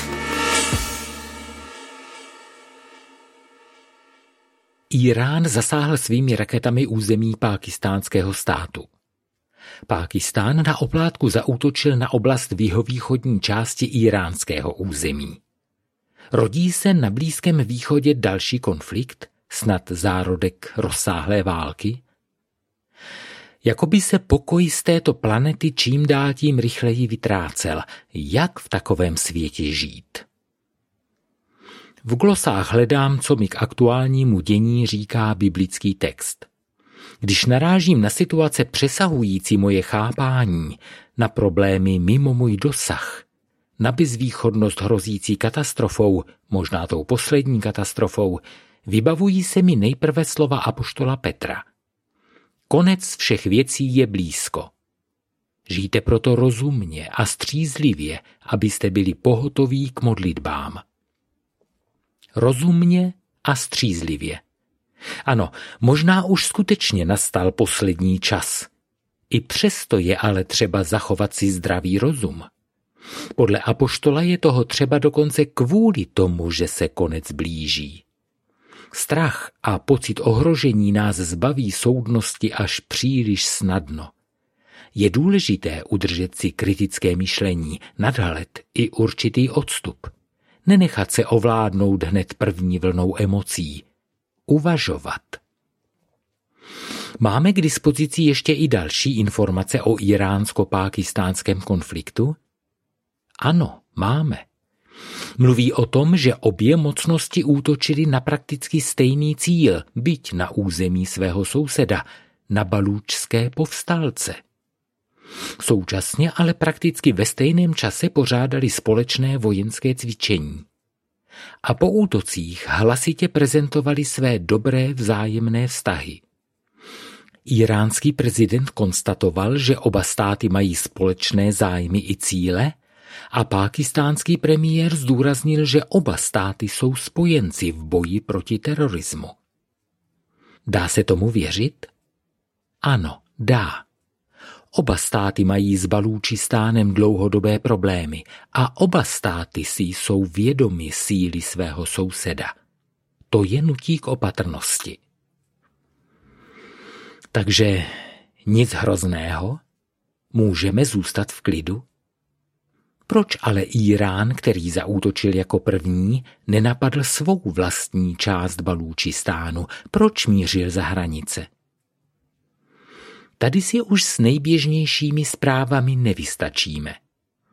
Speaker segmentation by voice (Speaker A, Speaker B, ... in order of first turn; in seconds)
Speaker A: 4.9-8.9, 9.9-15.4, 16.3-22.0, 23.6-30.2, 32.0-36.5, 37.2-43.2, 43.8-51.7, 52.7-54.7, 55.7-60.8, 62.4-64.4, 65.2-68.7, 69.3-72.5, 73.4-78.0, 78.9-84.1, 84.9-90.1, 90.6-93.9, 94.5-95.4, 97.2-102.4, 103.4-104.5, 105.4-114.4, 115.6-120.7, 121.6-126.2, 127.5-132.8, 133.3-139.4, 140.7-141.9, 142.8-143.9, 144.7-152.6, 153.3-155.0, 157.3-159.6, 160.3-161.8, 163.1-171.5, 173.4-177.0